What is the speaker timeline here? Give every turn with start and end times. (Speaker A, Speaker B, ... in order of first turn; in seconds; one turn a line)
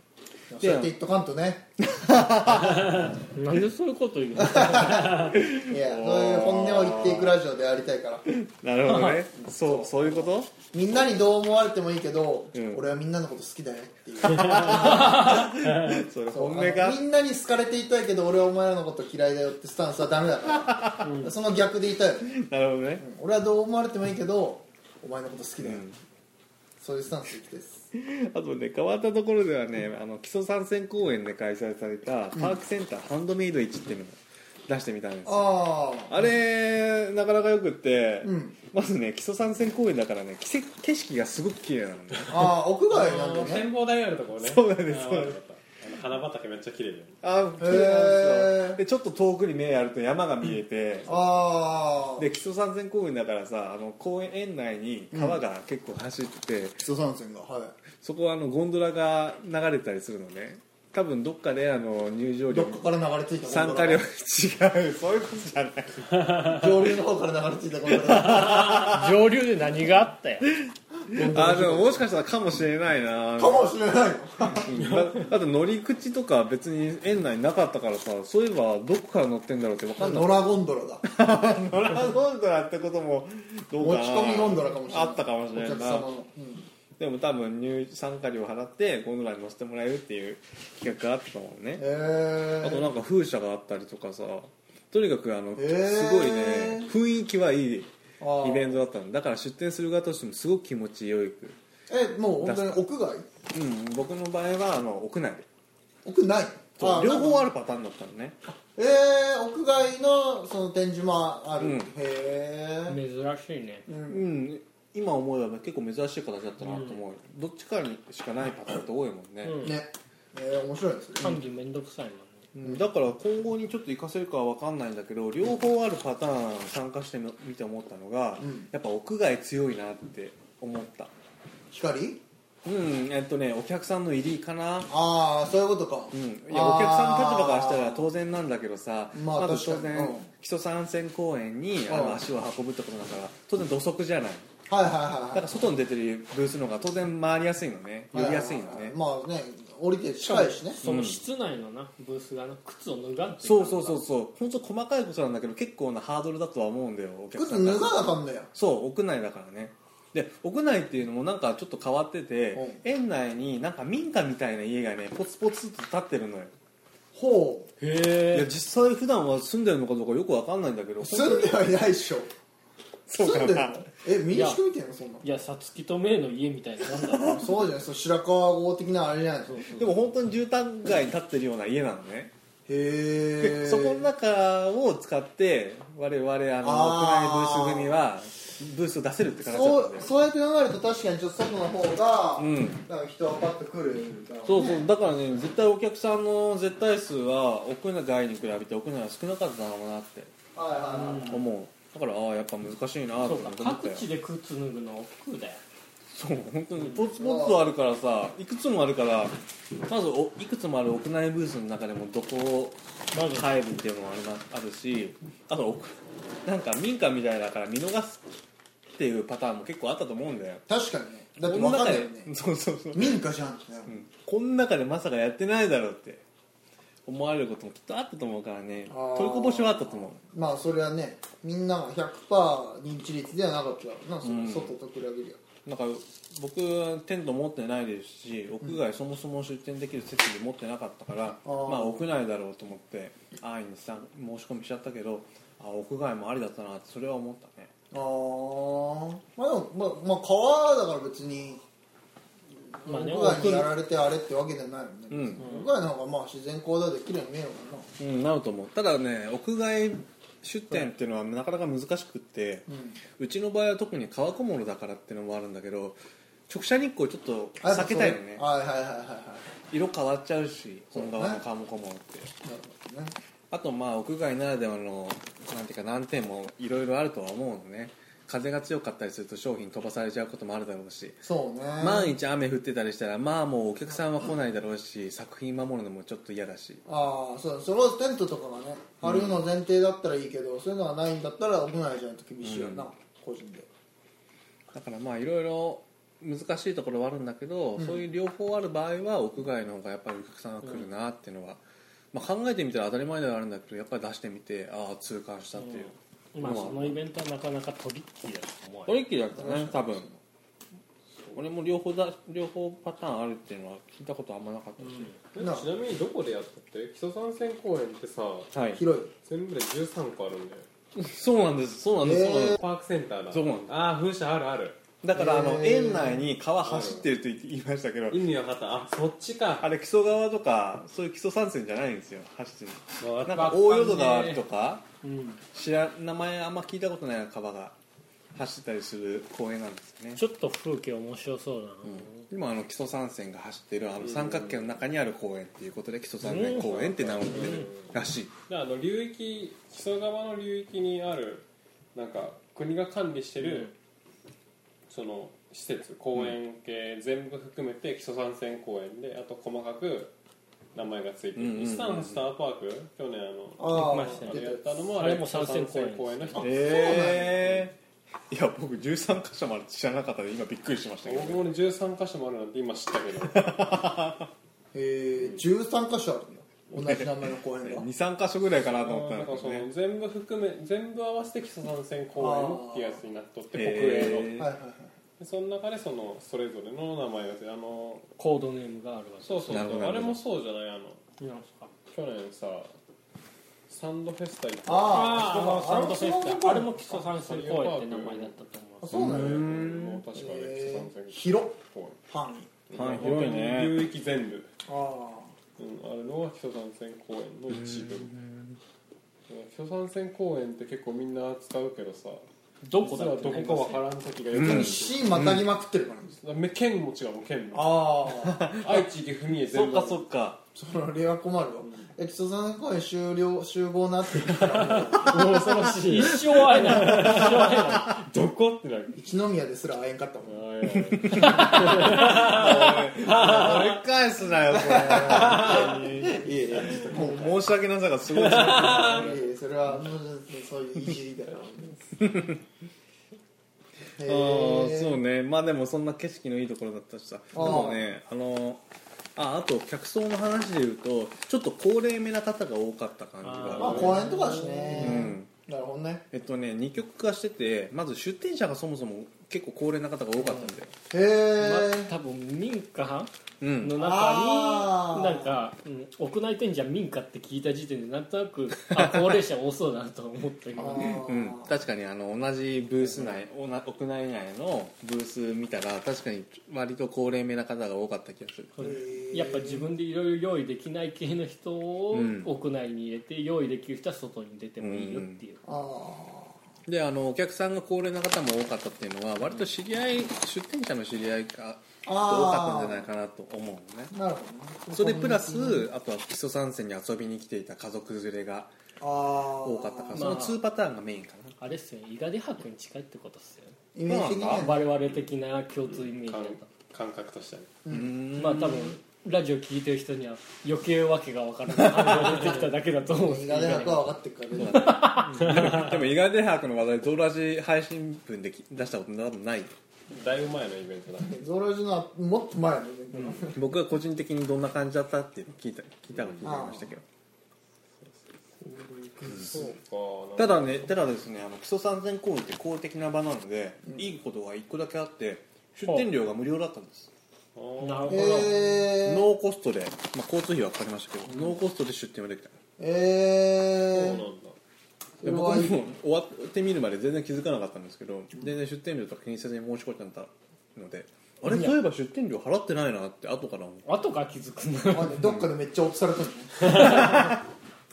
Speaker A: 0.5-1.7
Speaker B: 0.6-0.9
Speaker B: 1.9-3.2
Speaker C: 3.1-5.4
Speaker A: 4.4-8.3
Speaker B: 5.2-7.4
Speaker B: 8.3-10.5
Speaker C: 8.9-9.2
Speaker A: 9.4-15.6
Speaker B: 12.5-12.8
Speaker B: 14.2-17.0
Speaker D: 15.6-16.0
Speaker A: 16.3-22.4
Speaker B: 20.5-21.1
Speaker D: 21.0-21.3
Speaker B: 22.2-23.0
Speaker A: 23.0-25.8
Speaker B: 25.6-26.0
Speaker A: 26.8-27.9
Speaker B: 27.9-35.5
Speaker A: 35.2-36.2
Speaker B: 36.1-42.6
Speaker A: 38.2-38.6
Speaker A: 42.3-43.7
Speaker D: 42.9-47.2
Speaker B: 44.4-45.4
Speaker B: 47.2-51.2
Speaker A: 47.6-48.8
Speaker A: 51.1-52.3
Speaker B: 52.2-56.9
Speaker A: 55.1-55.4
Speaker A: 56.8-57.8
Speaker B: 58.0-62.8
Speaker A: 62.5-64.0
Speaker B: 63.4-66.2
Speaker A: 66.4-68.9
Speaker B: 68.0-69.1
Speaker C: 68.1-70.5
Speaker B: 70.7-73.7
Speaker A: 71.1-72.0
Speaker A: 73.4-74.7
Speaker B: 74.5-80.4
Speaker D: 74.7-75.3
Speaker A: 80.0-81.1
Speaker B: 81.0-86.1
Speaker A: 83.8-86.7
Speaker B: 87.0-91.8
Speaker A: 91.8-92.9
Speaker B: 92.6-101.6
Speaker A: 95.6-96.9
Speaker A: 98.2-98.8
Speaker A: 101.9-103.2
Speaker B: 102.4-102.8
Speaker B: 103.5-105.5
Speaker A: 106.0-107.4
Speaker B: 106.8-108.4
Speaker A: 108.5-113.0
Speaker B: 111.6-111.9
Speaker C: 112.9-113.9
Speaker A: 113.9-114.3
Speaker B: 114.1-119.7
Speaker C: 116.6-117.0
Speaker C: 119.4-119.8
Speaker A: 119.6-121.4
Speaker C: 121.2-122.5
Speaker B: 122.5-131.1
Speaker A: 128.4-128.7
Speaker A: 131.7-132.2
Speaker B: 132.6-134.9
Speaker A: 134.9-138.0
Speaker B: 136.1-144.5
Speaker A: 139.1-140.3
Speaker A: 141.9-142.2
Speaker A: 144.7-145.6
Speaker B: 145.3-149.0
Speaker A: 148.1-150.8
Speaker C: 150.2-154.0
Speaker B: 150.8-151.2
Speaker B: 153.4-166.5
Speaker A: 157.3-158.5
Speaker A: 162.5-162.8
Speaker A: 167.1-167.7
Speaker C: 167.8-168.5
Speaker B: 168.3-171.6
Speaker A: 171.0-172.3
Speaker B: 173.1-173.9
Speaker A: 173.2-175.3
Speaker C: 174.3-174.6
Speaker C: 175.2-177.4
Speaker B: 176.9-177.5
Speaker A: 176.9-179.7
Speaker C: 179.5-179.9
Speaker B: 179.7-182.3
Speaker A: 182.7-184.1
Speaker B: 183.4-190.1
Speaker A: 186.6-187.9
Speaker A: 189.4-194.8
Speaker B: 192.4-192.8
Speaker B: 194.4-200.3
Speaker A: 200.6-201.4
Speaker C: 201.0-201.3
Speaker B: 201.2-204.1
Speaker C: 203.2-205.6
Speaker B: 206.1-209.4
Speaker A: 207.2-207.6
Speaker B: 209.9-218.4
Speaker C: 213.1-213.5
Speaker B: 218.9-220.7
Speaker A: 220.7-222.3
Speaker B: 221.4-223.2
Speaker A: 222.9-224.0
Speaker B: 223.9-226.2
Speaker B: 227.1-230.2
Speaker A: 228.9-235.4
Speaker B: 234.2-234.8
Speaker B: 235.7-247.7
Speaker A: 241.4-242.0
Speaker A: 247.9-251.6
Speaker A: 252.8-257.9
Speaker C: 252.9-253.7
Speaker B: 255.1-255.5
Speaker D: 255.4-255.7
Speaker B: 258.0-262.7
Speaker A: 262.7-263.0
Speaker B: 263.2-268.4
Speaker A: 267.6-269.5
Speaker B: 269.7-272.3
Speaker A: 270.9-271.4
Speaker A: 272.4-273.1
Speaker B: 273.5-281.2
Speaker A: 281.2-282.1
Speaker B: 281.8-286.8
Speaker A: 286.9-293.7
Speaker B: 289.0-289.4
Speaker B: 292.4-292.9
Speaker B: 294.7-307.0
Speaker A: 297.8-298.0
Speaker C: 306.3-309.0
Speaker B: 308.9-310.1
Speaker A: 309.4-310.2
Speaker B: 311.3-315.1
Speaker D: 315.3-318.5
Speaker A: 315.4-315.7
Speaker B: 318.5-318.8
Speaker A: 318.7-319.1
Speaker D: 319.2-320.7
Speaker B: 320.9-322.6
Speaker A: 322.0-322.6
Speaker D: 322.6-324.8
Speaker B: 323.3-323.8
Speaker B: 325.0-328.2
Speaker A: 325.1-326.3
Speaker D: 326.6-327.1
Speaker D: 328.1-329.7
Speaker B: 329.6-334.9
Speaker D: 333.0-333.6
Speaker C: 333.3-334.4
Speaker C: 335.0-335.4
Speaker B: 335.5-337.8
Speaker B: 338.4-340.2
Speaker C: 340.2-342.2
Speaker B: 341.9-348.3
Speaker D: 344.0-344.7
Speaker C: 346.2-347.7
Speaker D: 346.2-347.9
Speaker D: 348.5-353.7
Speaker C: 353.4-353.7
Speaker D: 354.9-360.1
Speaker D: 360.7-367.7
Speaker B: 361.4-362.3
Speaker A: 363.6-364.8
Speaker C: 363.7-366.4
Speaker A: 366.4-367.5
Speaker B: 366.4-367.8
Speaker B: 368.3-371.5
Speaker D: 371.0-373.8
Speaker B: 373.3-374.3
Speaker A: 374.7-377.9
Speaker D: 375.2-375.4
Speaker B: 376.8-379.7
Speaker D: 378.7-384.4
Speaker A: 382.2-383.0
Speaker B: 383.5-384.5
Speaker A: 384.0-384.9
Speaker D: 385.2-388.1
Speaker C: 388.2-389.8
Speaker D: 389.2-391.0
Speaker B: 389.5-390.2
Speaker C: 391.2-391.7
Speaker D: 391.9-392.7
Speaker D: 393.7-395.5
Speaker A: 394.7-396.7
Speaker C: 394.9-398.9
Speaker D: 396.9-398.3
Speaker A: 398.8-399.6
Speaker B: 398.9-400.0
Speaker D: 398.9-402.0
Speaker A: 400.1-402.5
Speaker D: 402.7-404.5
Speaker B: 402.7-403.8
Speaker A: 404.7-405.3
Speaker D: 405.6-408.1
Speaker B: 407.5-408.6
Speaker D: 409.3-415.2
Speaker C: 412.6-413.8
Speaker B: 414.3-415.4
Speaker A: 414.4-416.2
Speaker D: 416.2-418.0
Speaker A: 417.5-418.5
Speaker B: 418.1-418.9
Speaker D: 418.6-420.1
Speaker B: 419.5-420.4
Speaker A: 420.6-425.2
Speaker D: 421.6-421.9
Speaker D: 424.9-429.0
Speaker B: 425.0-425.3
Speaker C: 425.1-428.0
Speaker A: 429.0-430.4
Speaker D: 430.2-433.7
Speaker B: 431.0-439.2
Speaker A: 434.5-437.4
Speaker D: 435.4-435.9
Speaker D: 438.1-439.2
Speaker A: 438.3-442.1
Speaker B: 442.0-442.4
Speaker A: 444.0-445.0
Speaker B: 444.0-448.6
Speaker A: 447.3-447.9
Speaker B: 449.2-454.1
Speaker C: 453.3-455.1
Speaker D: 453.3-454.4
Speaker A: 453.6-456.1
Speaker B: 454.8-455.3
Speaker B: 456.1-460.7
Speaker A: 460.9-461.9
Speaker C: 461.4-471.1
Speaker B: 463.4-463.8
Speaker A: 463.8-465.4
Speaker B: 468.7-469.2
Speaker A: 470.6-471.5
Speaker B: 471.0-478.6
Speaker D: 472.9-473.1
Speaker C: 478.6-485.4
Speaker A: 478.6-479.7
Speaker B: 481.9-482.3
Speaker B: 484.6-485.2
Speaker A: 485.4-486.4
Speaker B: 486.7-493.9
Speaker A: 491.9-492.9
Speaker A: 493.9-495.7
Speaker B: 494.7-498.5
Speaker A: 498.8-500.3
Speaker B: 499.4-501.4
Speaker C: 499.9-500.4
Speaker C: 501.4-503.6
Speaker A: 503.7-504.6
Speaker B: 503.9-504.6
Speaker C: 504.3-506.5
Speaker D: 505.7-507.5
Speaker A: 507.6-507.9
Speaker B: 507.7-508.8
Speaker C: 508.1-515.3
Speaker B: 511.5-512.3
Speaker A: 512.9-514.8
Speaker B: 514.4-519.5
Speaker D: 515.2-515.8
Speaker D: 519.9-521.2
Speaker A: 521.1-523.4
Speaker B: 523.0-526.8
Speaker D: 525.9-526.3
Speaker A: 526.2-526.7
Speaker C: 528.5-529.3
Speaker D: 528.9-530.7
Speaker B: 529.1-529.3
Speaker B: 530.2-536.9
Speaker D: 537.4-538.4
Speaker C: 537.6-538.5
Speaker A: 537.9-539.1
Speaker B: 538.8-542.4
Speaker A: 542.6-544.0
Speaker D: 543.7-544.4
Speaker A: 545.0-545.6
Speaker B: 545.0-553.7
Speaker C: 553.6-555.1
Speaker A: 554.7-557.2
Speaker B: 556.5-557.1